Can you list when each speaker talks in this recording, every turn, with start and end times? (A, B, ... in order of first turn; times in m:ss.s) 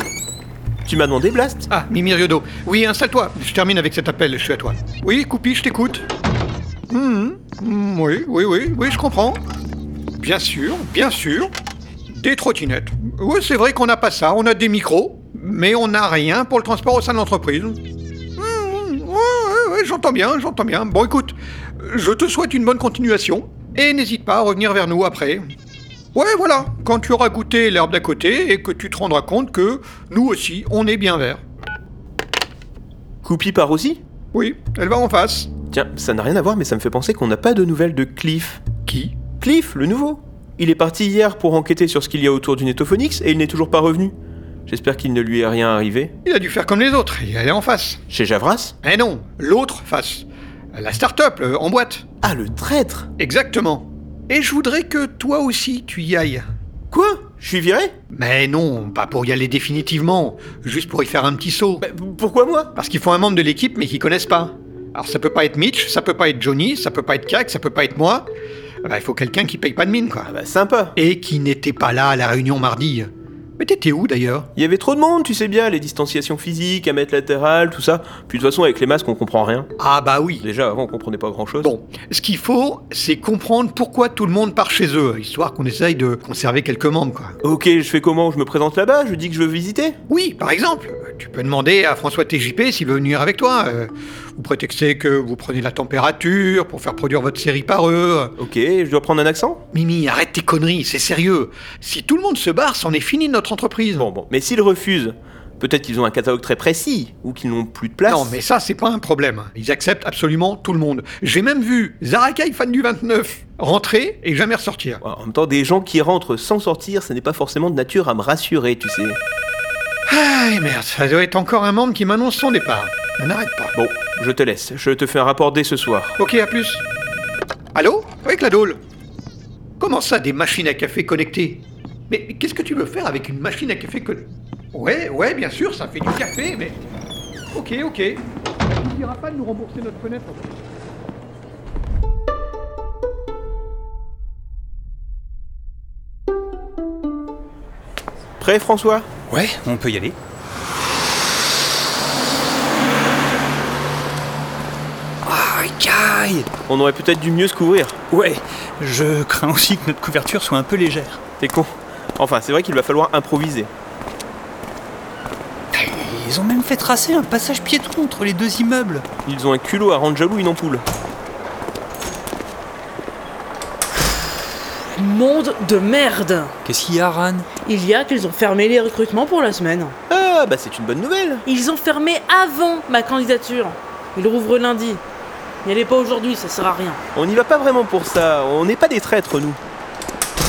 0:00.8-0:01.7 A
0:01.7-0:06.0 B
0:06.9-0:09.4 B
0:10.2-0:11.5 B
0:12.1-0:17.8 B
0:18.4-0:25.4 B
0:26.1-0:31.4 B
0:33.2-0:34.0 A
0:34.3-0:35.5 B
0:35.7-0:38.6 A
0:38.9-0:39.2 B
0:39.3-0:44.1 A
0:44.7-0:46.1 A
0:46.2-0:48.0 B
0:48.1-0:48.7 A
0:48.8-0:52.0 B
0:52.2-0:53.1 A
0:53.2-0:56.4 B
0:56.9-0:57.9 A
0:58.1-1:01.8 B
1:01.8-1:02.7 A
1:02.8-1:08.3 B
1:08.8-1:10.3 B
1:10.3-1:10.9 A
1:11.0-1:14.5 B
1:14.6-1:19.7 A
1:19.8-1:20.4 B
1:20.4-1:21.7 A
1:21.6-1:27.3 B
1:27.4-1:30.0 A
1:30.1-1:38.3 B
1:38.4-1:39.6 A
1:39.7-1:44.1 B
1:44.0-1:48.4 A
1:48.1-1:55.0 B
1:55.0-1:59.2 A
2:00.1-2:03.7 B
2:03.7-2:06.1 A
2:06.2-2:06.8 B
2:07.7-2:08.8 B
2:09.8-2:16.8 B
2:17.5-2:20.6 B
2:28.4-2:29.0 A
2:29.3-2:30.1 C
2:35.2-2:36.5 C
2:36.7-2:38.0 A
2:38.1-2:41.2 C
2:41.4-2:43.7 A
2:45.7-2:49.0 C
2:49.2-2:50.8 A
2:55.0-2:56.5 D
2:56.6-2:57.4 C
2:57.6-2:59.9 D
3:00.1-3:01.4 A
3:01.4-3:05.0 D
3:05.6-3:07.0 D
3:07.1-3:09.6 A